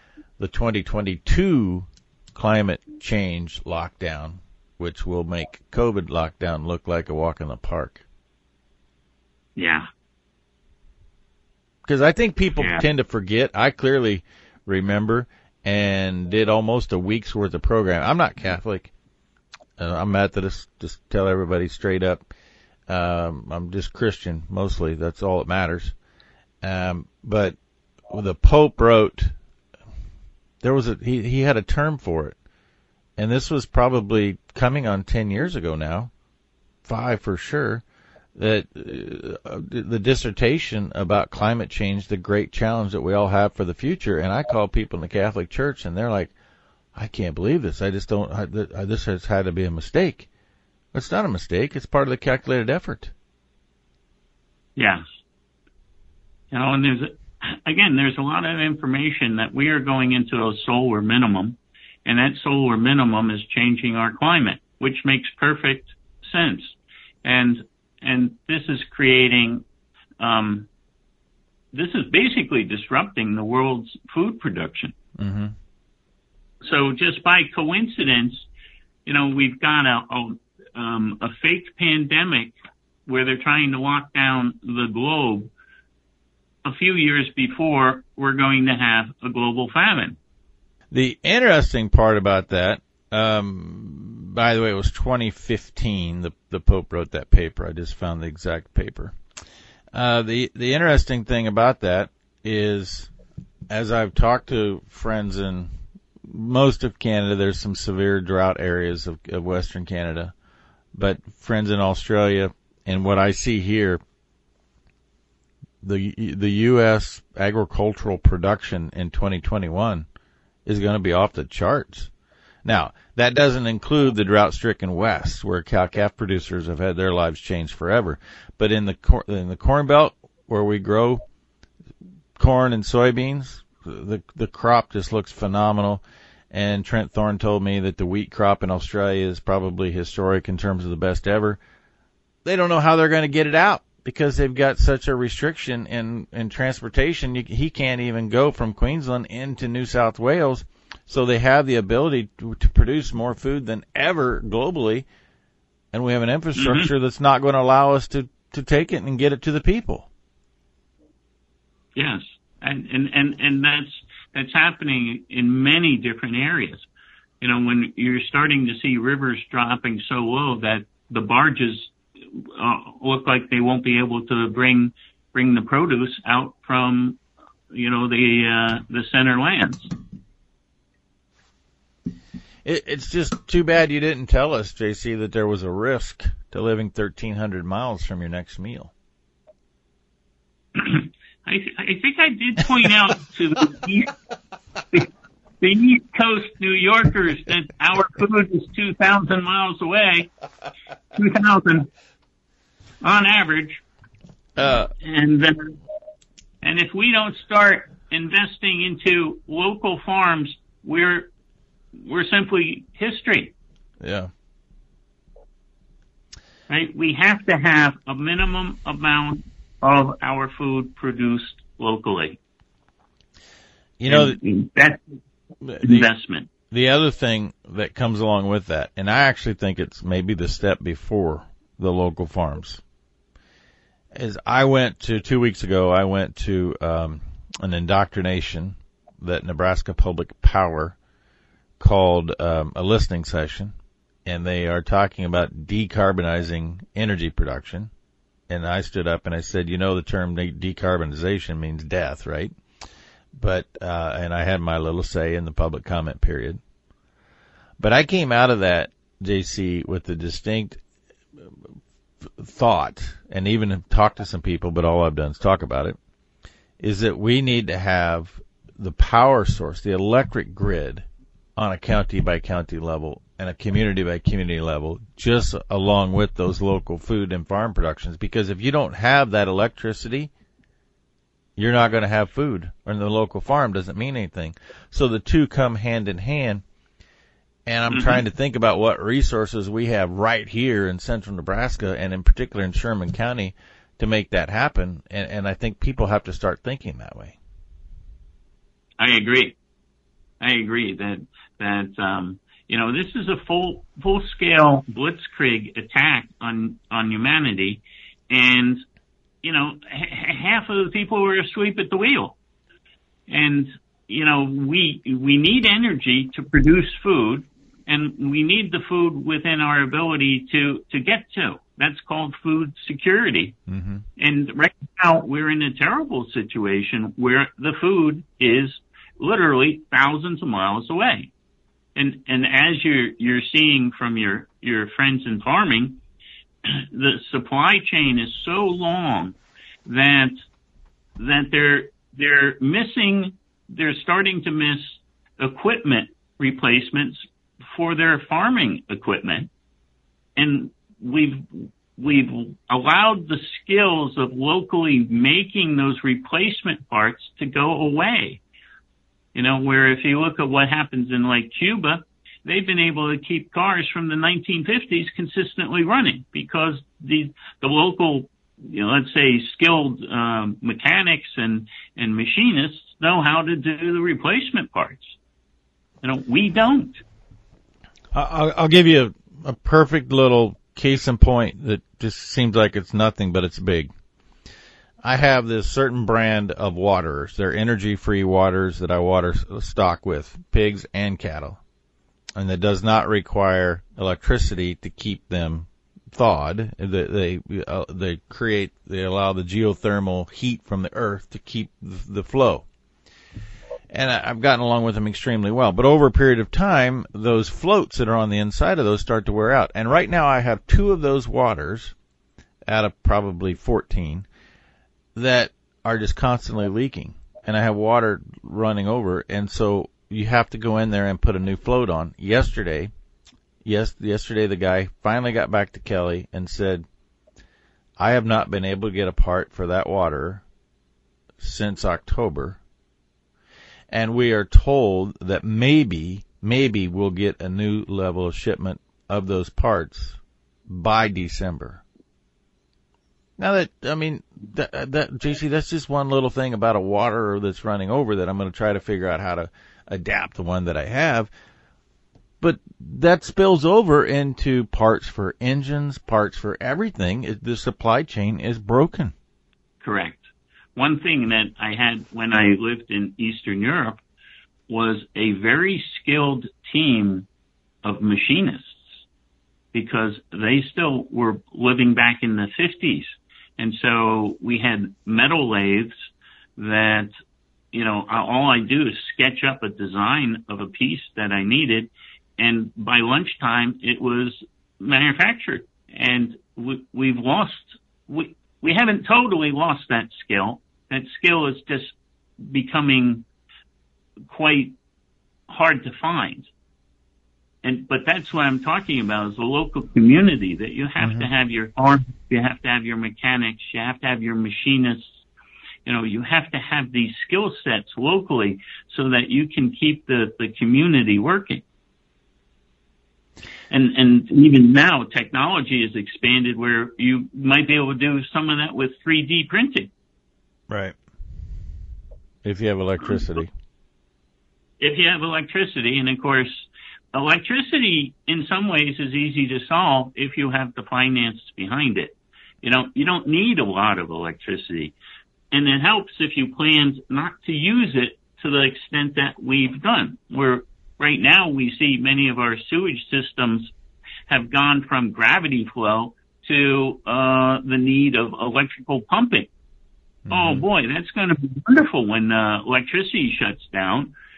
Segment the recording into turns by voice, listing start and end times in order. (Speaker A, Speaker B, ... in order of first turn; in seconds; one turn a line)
Speaker A: 0.4-8.0
Speaker B: 9.6-9.9
Speaker A: 11.8-18.9
Speaker B: 12.6-12.8
Speaker A: 19.8-22.3
Speaker A: 22.9-25.9
Speaker A: 26.6-27.6
Speaker A: 28.1-29.3
Speaker A: 30.6-32.4
Speaker A: 33.2-36.1
Speaker A: 36.8-37.8
Speaker A: 38.4-46.3
Speaker A: 46.9-50.3
Speaker A: 50.9-53.1
Speaker B: 54.8-55.0
Speaker B: 56.5-69.6
Speaker B: 70.2-70.7
Speaker B: 71.7-74.9
Speaker A: 75.2-75.5
Speaker B: 76.6-78.5
Speaker B: 79.0-82.5
Speaker B: 83.0-85.5
Speaker B: 86.6-90.2
Speaker A: 90.9-99.1
Speaker A: 99.9-103.1
Speaker A: 103.7-105.7
Speaker A: 106.2-110.3
Speaker A: 110.9-114.0
Speaker A: 115.8-120.1
Speaker A: 120.7-122.1
Speaker A: 122.6-131.2
Speaker A: 132.4-141.6
Speaker A: 142.4-155.1
Speaker A: 155.9-160.1
Speaker B: 156.6-156.9
Speaker B: 161.9-166.8
Speaker B: 167.4-177.2
Speaker B: 177.7-179.9
Speaker A: 182.6-188.9
Speaker B: 190.8-194.1
Speaker B: 195.6-200.3
Speaker B: 201.2-201.9
Speaker B: 203.0-203.8
Speaker A: 204.6-204.9
Speaker B: 205.0-205.8
Speaker B: 206.6-211.3
Speaker B: 211.9-213.5
Speaker A: 214.0-214.3
Speaker B: 216.7-222.4
Speaker A: 224.0-224.4
Speaker B: 224.1-225.0
Speaker A: 225.6-226.1
Speaker B: 225.8-226.5
Speaker A: 226.7-232.8
Speaker A: 234.1-241.0
Speaker A: 241.8-243.7
Speaker A: 244.2-247.9
Speaker A: 248.5-252.5
Speaker A: 253.3-256.6
Speaker A: 257.8-260.8
Speaker A: 262.4-266.0
Speaker A: 266.8-271.0
Speaker A: 271.6-280.3
Speaker A: 281.6-286.6
Speaker A: 287.6-297.4
Speaker B: 287.9-288.2
Speaker B: 299.0-299.6
Speaker B: 300.4-308.8
Speaker B: 309.4-312.4
Speaker B: 313.3-323.6
Speaker A: 323.7-324.0
Speaker B: 324.2-331.3
Speaker B: 331.9-336.0
Speaker B: 336.6-340.3
Speaker B: 341.2-349.5
Speaker B: 350.4-358.4
Speaker B: 359.3-375.2
Speaker B: 376.0-377.0
Speaker A: 378.1-383.9
Speaker A: 385.0-391.6
Speaker A: 392.4-402.6
Speaker A: 403.9-411.9
Speaker A: 412.7-414.3
Speaker A: 415.1-422.9
Speaker A: 423.6-426.8
Speaker A: 428.0-430.4
Speaker A: 431.4-432.6
Speaker A: 433.9-441.8
Speaker A: 443.4-451.3
Speaker A: 452.4-459.1
Speaker B: 459.8-464.0
Speaker B: 464.7-467.3
Speaker B: 467.8-468.9
Speaker B: 469.7-475.9
Speaker B: 476.6-477.1
Speaker B: 477.7-493.2
Speaker B: 494.3-494.7
Speaker B: 495.5-496.5
Speaker B: 497.6-505.1
Speaker A: 501.0-501.3
Speaker B: 505.9-511.6
Speaker B: 513.7-519.9
Speaker A: 520.7-521.0
Speaker A: 522.4-523.5
Speaker B: 524.8-534.9
Speaker B: 535.5-543.7
Speaker B: 544.3-549.5
Speaker A: 550.3-550.6
Speaker B: 550.3-554.1